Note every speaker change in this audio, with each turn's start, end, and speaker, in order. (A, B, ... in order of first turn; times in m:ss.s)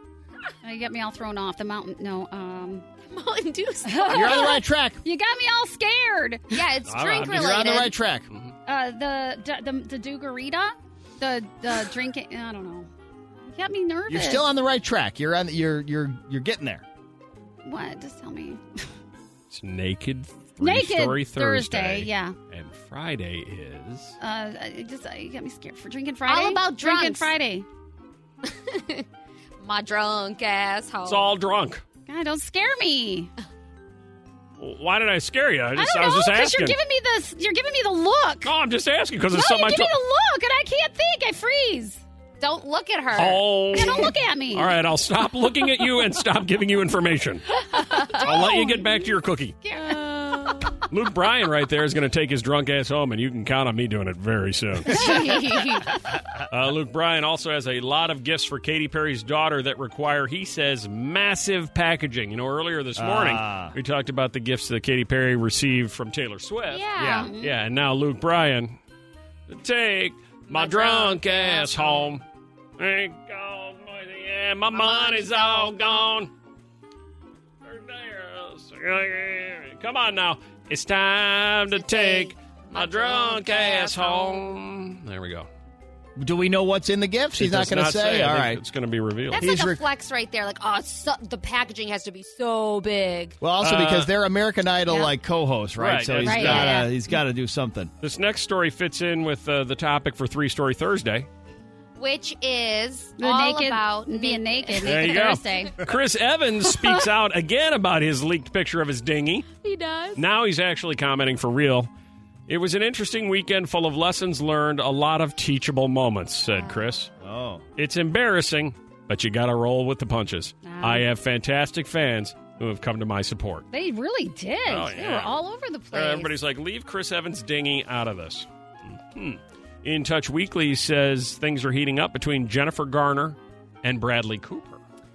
0:00.6-0:02.8 A
0:03.0-0:04.5 B
0:03.8-0:06.6 A
0:04.1-0:05.0 C
0:06.5-0:07.9 B
0:06.9-0:08.5 D
0:07.3-0:08.3 C
0:08.6-0:12.9 A
0:13.5-0:14.4 A
0:14.1-0:16.8 C
0:17.6-0:18.8 A
0:19.5-0:24.2 D
0:20.6-0:22.4 A
0:24.2-0:27.6 A
0:26.3-0:27.3 B
0:28.4-0:29.0 B
0:29.6-0:31.3 B
0:31.0-0:31.8 D
0:32.1-0:33.3 A
0:34.6-0:36.8 D
0:35.8-0:38.5 A
0:38.4-0:39.9 D
0:39.3-0:42.0 A
0:42.4-0:44.1 B
0:43.1-0:47.4 D
0:43.7-0:44.7 A
0:47.7-0:49.1 A
0:48.2-0:49.6 D
0:49.6-0:50.8 A
0:50.9-0:55.0 D
0:54.9-0:55.9 B
0:56.5-1:06.8 D
1:03.0-1:03.7 C
1:06.7-1:07.3 B
1:07.0-1:07.3 C
1:07.0-1:07.6 A
1:07.4-1:08.8 D
1:09.5-1:12.2 D
1:10.5-1:12.0 B
1:12.8-1:16.3 D
1:14.7-1:16.0 B
1:17.6-1:25.5 D
1:21.7-1:24.5 B
1:26.2-1:28.6 C
1:27.4-1:29.4 D
1:29.3-1:33.4 B
1:29.3-1:29.8 C
1:33.4-1:37.9 C
1:33.6-1:34.1 D
1:35.8-1:36.8 D
1:36.2-1:36.9 A
1:38.0-1:41.3 D
1:42.0-1:45.7 B
1:43.2-1:45.7 A
1:44.8-1:49.5 D
1:49.5-1:50.2 B
1:50.1-1:51.9 D
1:52.5-1:57.1 D
1:57.2-1:57.6 C
1:57.8-2:03.6 D
2:00.6-2:01.1 A
2:03.7-2:06.4 A
2:04.6-2:05.4 D
2:05.9-2:14.8 D